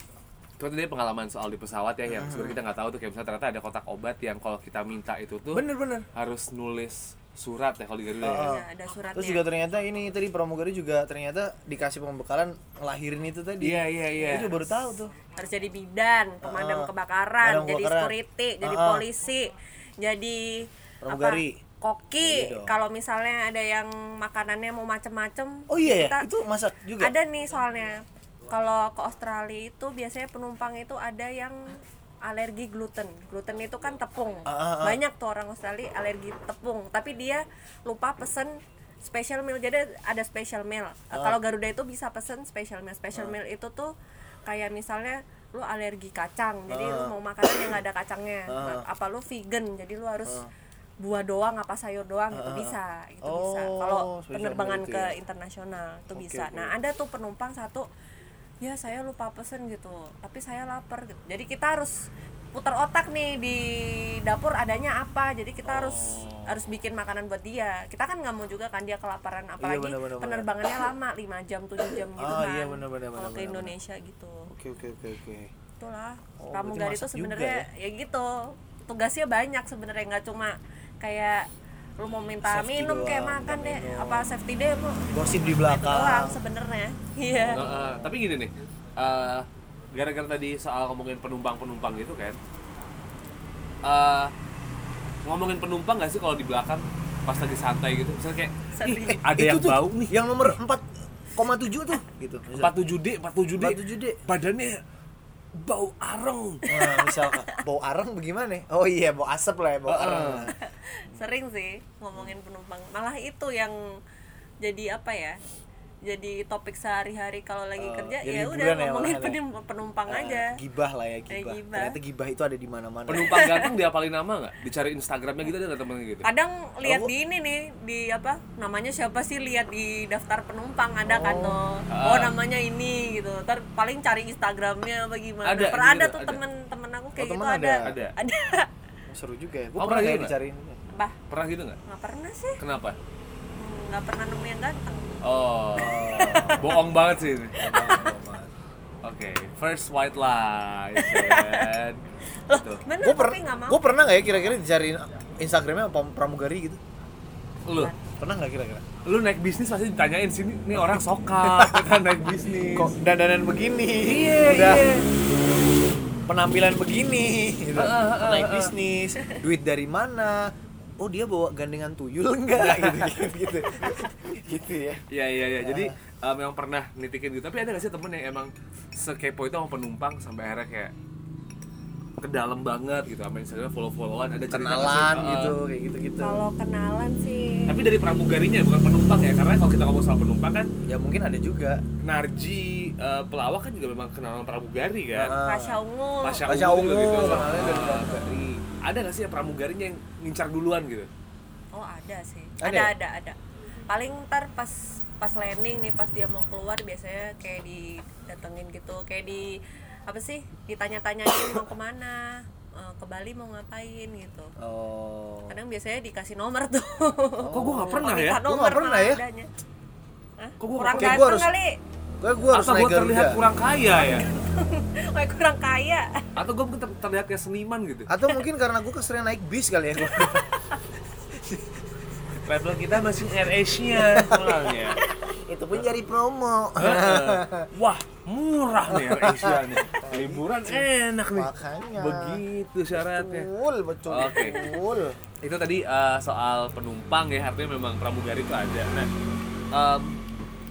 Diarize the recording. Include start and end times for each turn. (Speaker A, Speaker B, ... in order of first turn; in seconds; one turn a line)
Speaker A: 0.6-8.5
Speaker B: 2.1-2.6
Speaker B: 5.5-6.1
Speaker B: 8.2-15.1
Speaker C: 8.4-9.5
Speaker A: 13.6-14.5
Speaker C: 14.2-14.6
Speaker C: 15.2-26.3
Speaker B: 16.4-16.9
Speaker B: 17.4-19.0
Speaker B: 21.0-21.6
Speaker B: 22.2-22.7
Speaker B: 25.7-27.1
Speaker C: 27.0-43.9
Speaker B: 34.5-35.0
Speaker C: 44.5-50.4
Speaker B: 46.7-47.8
Speaker B: 48.5-48.9
Speaker C: 51.0-57.9
Speaker B: 52.3-55.1
Speaker B: 56.1-56.7
Speaker C: 58.6-62.0
Speaker C: 62.5-74.5
Speaker B: 65.6-66.6
Speaker B: 69.6-70.8
Speaker B: 71.9-73.7
Speaker B: 74.5-75.5
Speaker C: 75.8-81.5
Speaker B: 76.4-77.7
Speaker C: 82.0-87.6
Speaker B: 82.4-84.3
Speaker B: 85.1-86.4
Speaker B: 87.3-88.1
Speaker A: 87.5-92.4
Speaker A: 93.8-94.3
Speaker A: 95.2-100.1
Speaker C: 98.8-99.2
Speaker B: 99.2-100.8
Speaker B: 101.3-102.7
Speaker A: 102.5-104.8
Speaker B: 103.5-104.2
Speaker A: 105.6-106.7
Speaker C: 106.7-107.6
Speaker B: 106.7-110.5
Speaker A: 109.9-110.5
Speaker C: 110.6-113.8
Speaker C: 114.6-115.4
Speaker C: 116.0-120.5
Speaker B: 117.8-119.4
Speaker B: 120.1-123.4
Speaker C: 121.3-122.0
Speaker A: 123.1-126.2
Speaker C: 123.3-123.7
Speaker C: 126.2-138.7
Speaker B: 126.8-127.1
Speaker B: 131.1-131.6
Speaker A: 131.9-132.3
Speaker A: 135.4-136.4
Speaker B: 137.2-137.9
Speaker A: 137.8-138.1
Speaker B: 139.1-140.8
Speaker A: 139.8-140.3
Speaker C: 140.9-141.2
Speaker A: 141.3-141.8
Speaker C: 141.8-142.6
Speaker A: 142.6-143.0
Speaker C: 143.6-145.2
Speaker A: 145.2-148.0
Speaker B: 145.7-146.7
Speaker C: 146.1-146.7
Speaker B: 147.6-148.5
Speaker C: 147.7-148.0
Speaker A: 149.0-152.8
Speaker C: 150.9-151.7
Speaker C: 152.5-153.8
Speaker B: 153.0-156.8
Speaker A: 157.7-157.9
Speaker C: 157.7-158.0
Speaker B: 158.2-158.8
Speaker A: 159.0-162.9
Speaker B: 160.8-165.0
Speaker A: 164.0-165.1
Speaker B: 166.3-175.0
Speaker A: 167.7-168.7
Speaker A: 172.5-173.3
Speaker A: 175.1-180.9
Speaker B: 175.6-175.9
Speaker A: 182.2-185.6
Speaker B: 184.5-186.4
Speaker C: 186.2-187.8
Speaker A: 187.7-190.7
Speaker B: 190.9-191.8
Speaker A: 192.0-195.3
Speaker B: 195.1-195.8
Speaker C: 195.4-196.4
Speaker A: 196.2-201.1
Speaker B: 196.4-198.6
Speaker C: 201.7-203.4
Speaker B: 202.6-202.9
Speaker C: 203.9-214.5
Speaker B: 214.6-215.5
Speaker C: 215.5-219.5
Speaker B: 217.4-219.2
Speaker A: 217.5-218.4
Speaker C: 220.4-221.8
Speaker A: 220.6-221.2
Speaker B: 221.0-221.5
Speaker B: 222.2-223.4
Speaker A: 222.5-224.3
Speaker C: 223.9-226.2
Speaker A: 226.3-228.1
Speaker B: 228.1-230.5
Speaker A: 232.4-235.0
Speaker B: 234.1-234.7
Speaker B: 235.4-237.7
Speaker A: 236.8-243.5
Speaker B: 238.9-242.4
Speaker B: 242.9-245.2
Speaker A: 244.1-244.7
Speaker A: 245.4-249.1
Speaker A: 249.7-250.2